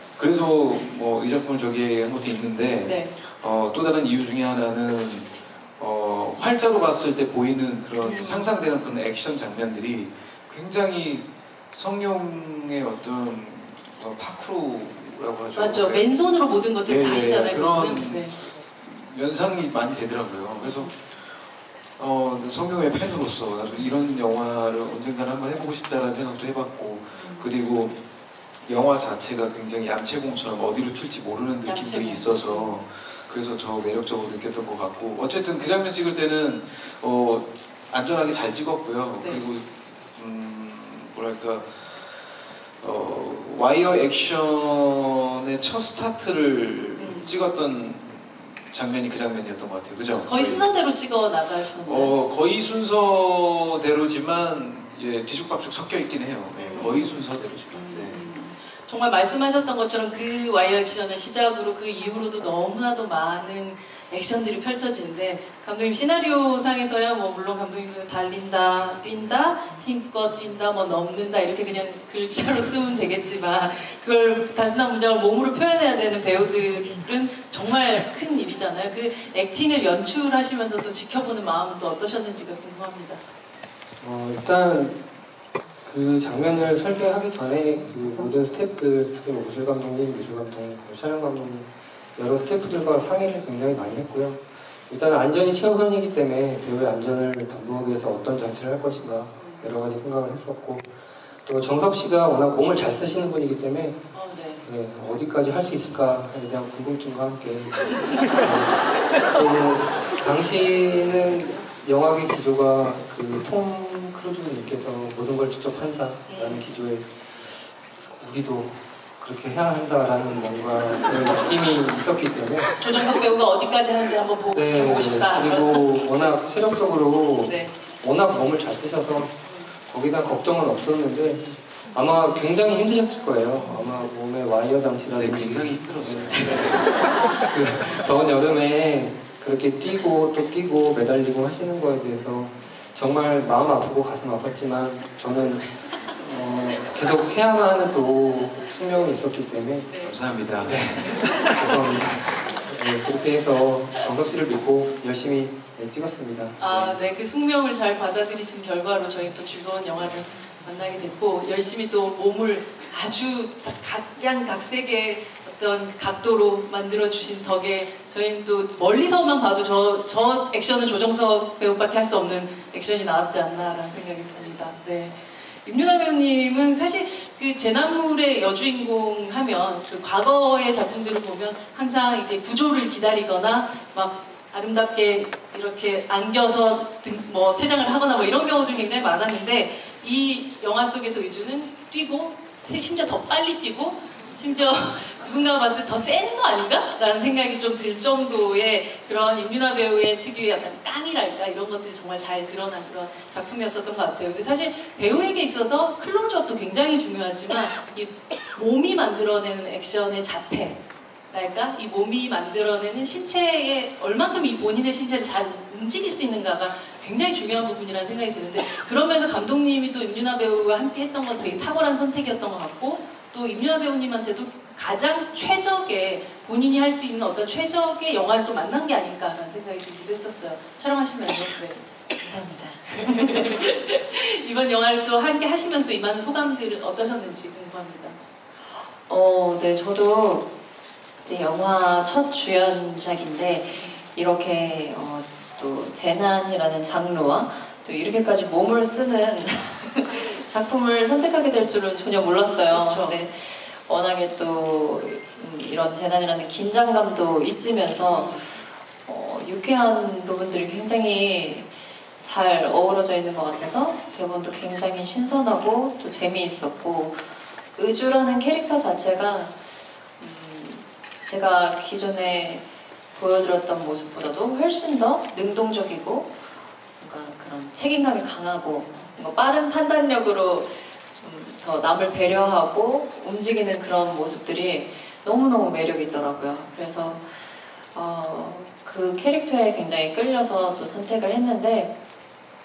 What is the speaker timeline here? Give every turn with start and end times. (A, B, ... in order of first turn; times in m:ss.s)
0:00.2-0:16.2 A
0:02.8-0:03.1 B
0:08.0-0:08.5 B
0:15.6-0:18.4 B
0:16.8-0:21.3 A
0:20.6-0:20.9 B
0:22.0-0:28.0 A
0:27.1-0:27.5 B
0:28.6-0:50.7 A
0:31.6-0:32.8 B
0:47.0-0:47.3 B
0:50.0-0:52.2 B
0:51.6-0:58.3 A
0:56.6-1:23.2 B
1:24.0-1:25.0 C
1:25.8-1:40.9 C
1:39.3-1:39.7 B
1:41.4-1:44.0 C
1:44.1-1:44.7 B
1:44.6-2:02.7 C
1:56.3-1:56.7 B
2:02.8-2:05.9 B
2:04.5-2:09.4 C
2:07.4-2:07.7 B
2:09.4-2:09.7 B
2:09.9-2:29.9 C
2:13.5-2:14.1 B
2:15.1-2:16.8 A
2:29.9-2:30.2 B
2:30.0-2:31.2 A
2:30.5-2:37.0 C
2:36.6-3:51.8 B
3:52.2-3:53.5 D
3:53.0-3:58.2 B
3:58.8-4:00.5 D
4:01.2-4:36.4 D
4:03.7-4:04.1 B
4:12.7-4:13.2 B
4:18.1-4:18.6 B
4:37.0-4:51.9 D
4:38.9-4:39.1 B